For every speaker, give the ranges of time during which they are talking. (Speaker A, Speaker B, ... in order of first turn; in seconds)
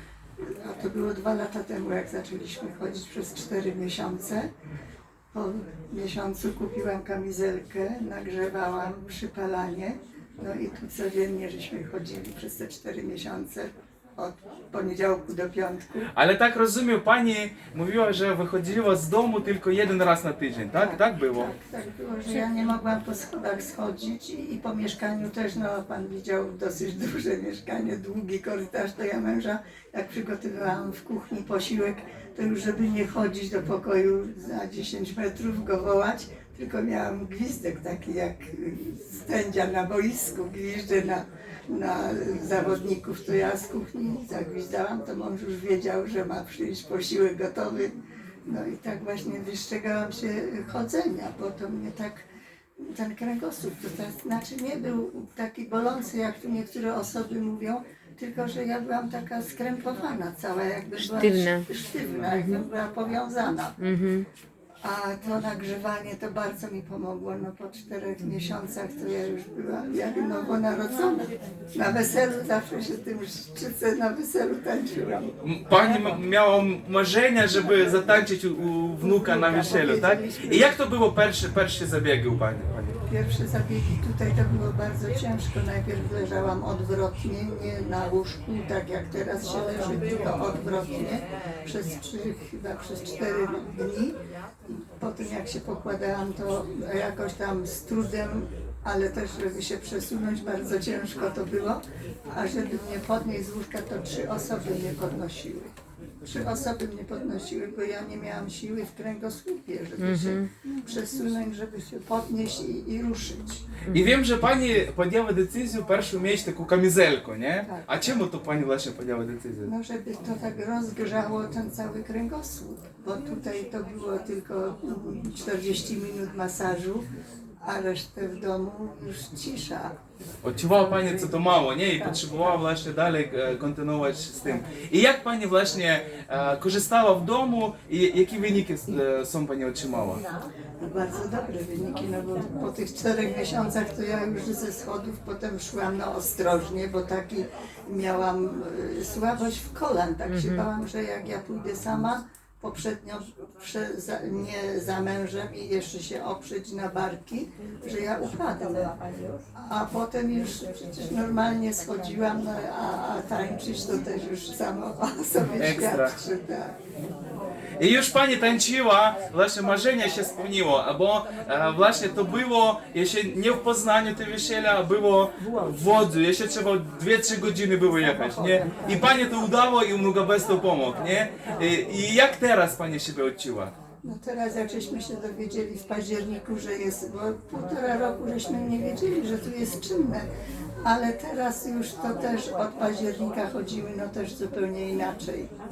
Speaker A: 0.4-4.5, 5.3-16.1, 20.8-47.9, 48.5-52.2, 52.8-63.8, 64.8-76.2, 79.0-80.8, 83.1-94.2, 94.7-105.7, 106.2-113.7, 117.6-118.2, 119.6-127.1, 127.6-129.9, 140.8-159.0, 159.6-166.7, 177.9-179.2, 184.0-190.3, 190.8-195.5
Speaker B: 16.1-21.5, 75.4-83.0, 113.9-119.7, 130.4-140.2, 165.5-166.2, 167.8-183.7
Speaker C: 61.0-61.6, 62.2-62.7, 63.8-64.2, 110.0-110.5, 113.9-114.2, 150.3-150.6